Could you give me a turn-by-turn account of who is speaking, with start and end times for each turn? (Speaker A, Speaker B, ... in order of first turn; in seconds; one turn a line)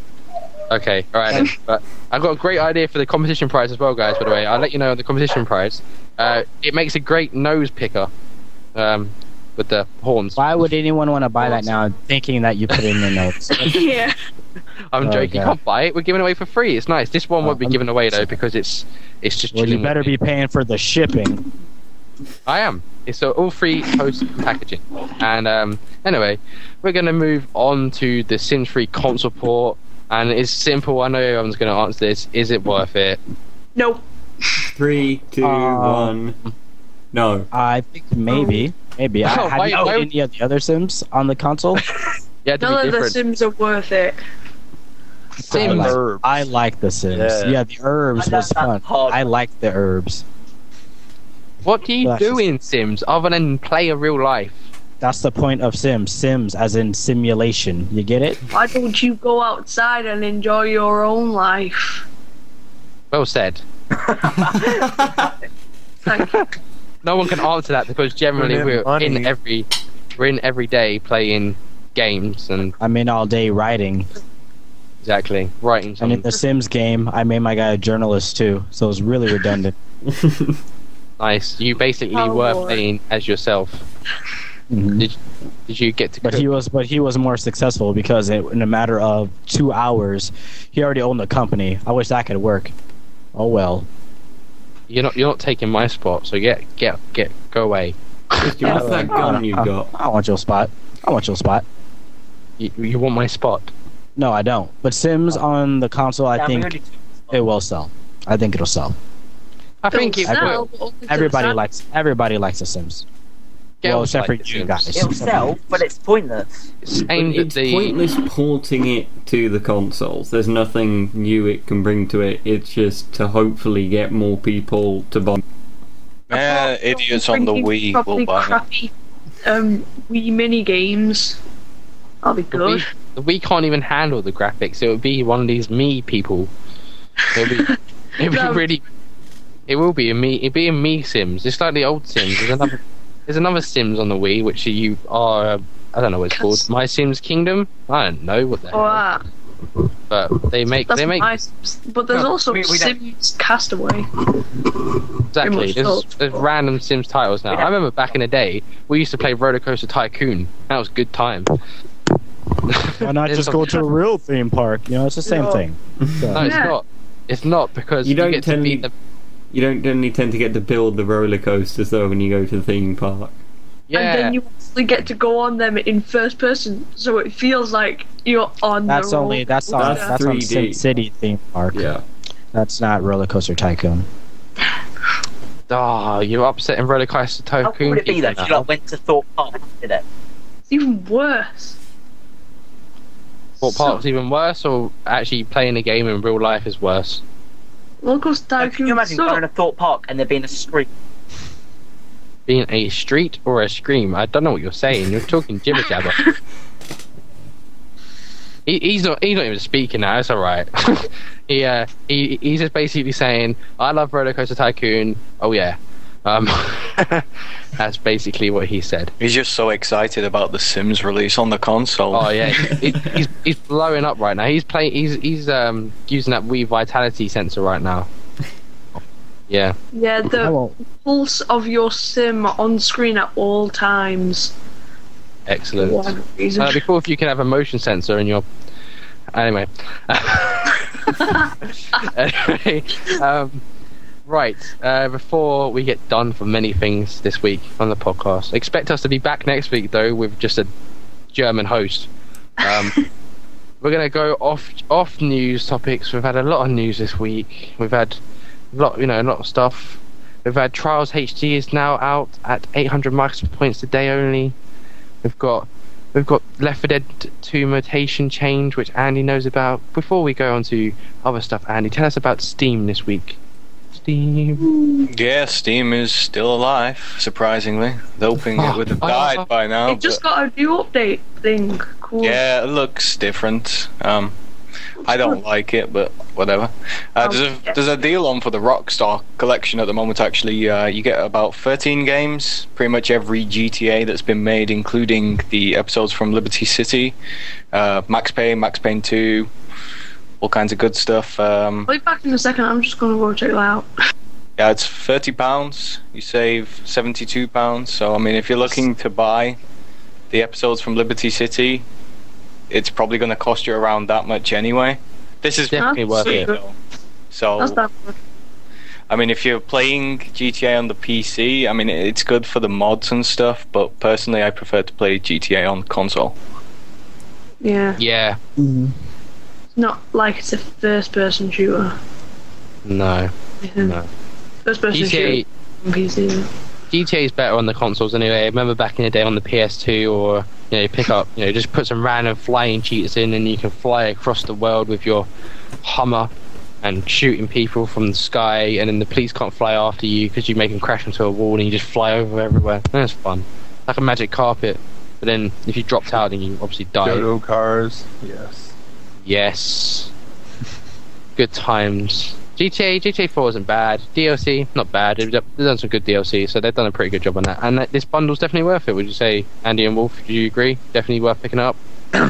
Speaker A: 0.7-8.1
Speaker A: 8.8-10.5
Speaker B: 10.4-13.8
Speaker C: 13.5-14.2
Speaker A: 14.9-20.2
Speaker B: 15.0-15.6
Speaker B: 17.4-18.4
Speaker B: 19.5-21.5
Speaker A: 22.5-33.2
Speaker C: 33.8-34.0
Speaker D: 34.8-36.4
Speaker B: 35.4-36.2
Speaker D: 37.1-37.5
Speaker B: 37.5-41.8
Speaker C: 38.3-38.7
Speaker A: 39.2-40.1
Speaker A: 42.5-43.2
Speaker C: 42.6-44.2
Speaker E: 45.4-46.5
Speaker B: 45.5-50.2
Speaker A: 45.5-46.0
Speaker E: 47.1-47.6
Speaker F: 48.2-49.3
Speaker A: 51.6-54.6
Speaker B: 52.0-52.5
Speaker B: 55.0-58.4
Speaker C: 58.5-62.0
Speaker A: 63.1-63.6
Speaker F: 64.0-65.3
Speaker C: 66.0-66.4
Speaker A: 66.1-66.5
Speaker A: 67.0-72.7
Speaker E: 68.4-69.3
Speaker B: 72.8-74.1
Speaker A: 75.0-76.3
Speaker B: 76.0-79.8
Speaker D: 80.1-80.6
Speaker A: 81.2-83.8
Speaker C: 82.1-82.8
Speaker B: 84.7-85.1
Speaker A: 85.0-86.5
Speaker B: 86.2-92.7
Speaker B: 93.3-93.9
Speaker A: 94.9-98.8
Speaker D: 98.4-99.9
Speaker C: 98.6-99.3
Speaker B: 98.6-101.7
Speaker A: 102.6-103.7
Speaker B: 104.2-106.7
Speaker F: 106.3-107.5
Speaker B: 107.3-109.0
Speaker A: 109.8-110.7
Speaker C: 109.9-111.6
Speaker B: 110.2-113.0
Speaker A: 113.8-114.9
Speaker B: 113.8-115.8
Speaker F: 114.9-116.7
Speaker A: 116.8-118.0
Speaker D: 117.1-125.4
Speaker G: 126.3-128.6
Speaker C: 126.3-128.9
Speaker C: 129.4-131.4
Speaker C: 132.2-132.9
Speaker A: 132.5-136.5
Speaker A: 137.3-138.8
Speaker C: 137.4-138.7
Speaker A: 139.7-149.0
Speaker C: 146.3-146.6
Speaker C: 148.7-149.2
Speaker A: 150.1-151.3
Speaker C: 150.9-154.1
Speaker F: 152.1-152.9
Speaker A: 155.3-161.6
Speaker C: 155.4-156.4
Speaker A: 162.7-163.8
Speaker B: 162.9-166.5
Speaker F: 165.3-165.6
Speaker A: 166.3-168.9
Speaker C: 166.4-166.8
Speaker D: 168.0-168.9
Speaker D: 169.5-173.4
Speaker A: 173.9-174.4
Speaker C: 173.9-180.2
Speaker B: 178.9-181.9
Speaker D: 179.8-180.8
Speaker D: 181.7-182.0
Speaker B: 182.5-184.1
Speaker A: 185.7-188.6
Speaker F: 187.6-190.1
Speaker C: 190.7-191.8
Speaker C: 193.6-194.0
Speaker A: 193.6-197.2
Speaker C: 198.0-199.4
Speaker F: 198.6-200.9
Speaker A: 202.5-206.2
Speaker C: 205.8-206.4
Speaker A: 208.7-219.1
Speaker G: 219.2-222.7
Speaker A: 222.1-228.1
Speaker A: 229.5-229.8
Speaker C: 229.9-234.5
Speaker B: 230.3-230.7
Speaker A: 235.5-238.4
Speaker C: 235.8-236.8
Speaker A: 239.3-241.2
Speaker C: 241.2-241.5
Speaker A: 241.9-243.6
Speaker A: 244.3-250.7
Speaker A: 251.3-252.1
Speaker A: 252.6-253.0
Speaker A: 253.8-258.2
Speaker A: 258.7-264.6
Speaker A: 265.2-273.4
Speaker A: 274.0-274.7
Speaker C: 274.6-275.1
Speaker G: 275.1-280.2
Speaker A: 278.6-279.5
Speaker C: 279.9-282.4
Speaker G: 282.2-284.3
Speaker G: 285.0-297.2
Speaker C: 285.0-285.4
Speaker C: 287.2-287.8
Speaker G: 297.7-299.5
Speaker G: 300.4-301.9
Speaker C: 301.9-303.9
Speaker G: 304.6-309.6
Speaker G: 310.3-311.9
Speaker G: 312.7-316.7
Speaker A: 315.7-316.5
Speaker C: 315.8-316.6
Speaker G: 317.3-317.8
Speaker C: 317.6-318.2
Speaker G: 319.1-326.4
Speaker C: 327.6-328.0
Speaker A: 328.0-328.4
Speaker B: 328.6-328.9
Speaker C: 329.8-332.0
Speaker A: 332.9-334.1
Speaker C: 333.6-334.0
Speaker C: 334.6-336.5
Speaker A: 334.9-335.5
Speaker A: 336.9-345.3
Speaker A: 345.8-357.3
Speaker E: 357.0-358.7
Speaker A: 359.2-360.1
Speaker A: 361.4-371.8